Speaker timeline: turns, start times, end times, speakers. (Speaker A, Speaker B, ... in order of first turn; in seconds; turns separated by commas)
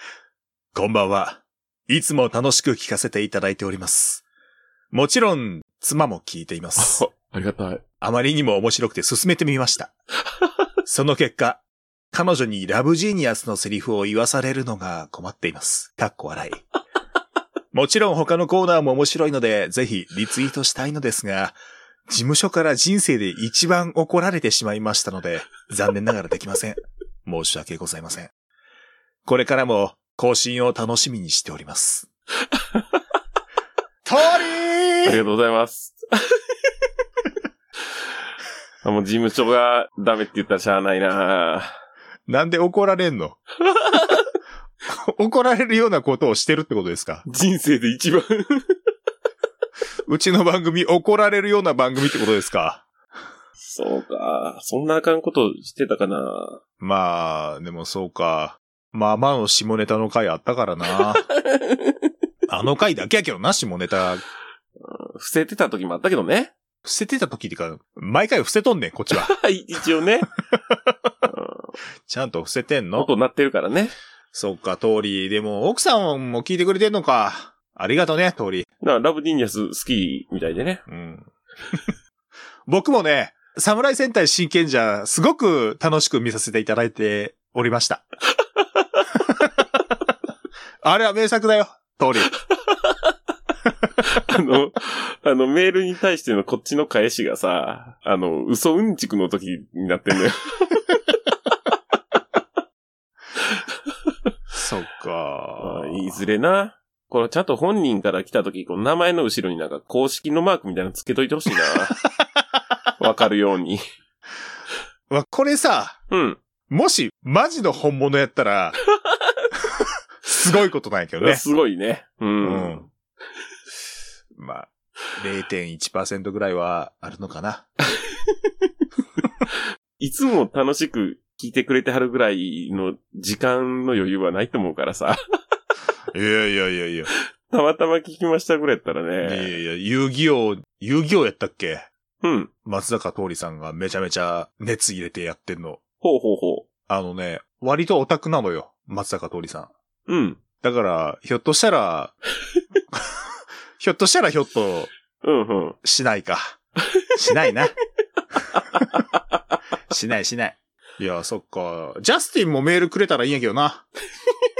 Speaker A: 0.7-4.2, Speaker A: 4.9-7.0, Speaker B: 6.8-7.8, Speaker A: 8.0-9.9, Speaker A: 10.8-16.6, Speaker A: 17.7-21.6, Speaker A: 22.1-28.3, Speaker A: 29.2-32.1, Speaker B: 32.5-32.8, Speaker A: 34.0-35.2, Speaker B: 35.0-36.4, Speaker B: 38.8-41.7, Speaker A: 42.3-43.4, Speaker B: 43.7-44.2, Speaker A: 44.9-47.2, Speaker B: 47.2-48.7, Speaker A: 50.1-52.8, Speaker B: 53.6-56.6, Speaker A: 56.8-61.2, Speaker B: 60.9-62.1, Speaker A: 62.5-64.2, Speaker B: 64.8-66.5, Speaker A: 66.8-69.3, Speaker B: 69.1-70.3, Speaker A: 70.5-70.9, Speaker B: 71.3-71.7, Speaker A: 72.1-73.1, Speaker B: 73.0-73.9, Speaker A: 74.3-78.7, Speaker B: 78.8-80.8, Speaker A: 80.9-81.8, Speaker A: 82.7-88.0, Speaker A: 89.2-89.6, Speaker A: 90.8-92.3, Speaker B: 92.7-93.1, Speaker B: 94.0-100.9, Speaker A: 104.5-106.2, Speaker B: 105.6-112.0, Speaker B: 113.0-113.8, Speaker A: 115.1-116.0, Speaker B: 116.1-116.4, Speaker A: 116.7-118.8, Speaker A: 120.2-121.4, Speaker B: 121.2-122.9, Speaker A: 122.4-122.8, Speaker A: 124.3-127.7, Speaker B: 129.5-135.2, Speaker A: 136.1-137.1, Speaker B: 137.5-139.6, Speaker A: 139.2-141.9, Speaker B: 142.2-142.5, Speaker A: 142.6-145.8, Speaker B: 146.0-146.7, Speaker A: 146.9-149.7, Speaker B: 150.1-150.4, Speaker A: 150.6-152.1, Speaker A: 152.9-153.2, Speaker A: 153.8-154.9, Speaker B: 155.2-155.8, Speaker A: 155.8-156.6, Speaker A: 157.1-157.7, Speaker B: 158.7-159.0, Speaker A: 159.9-163.8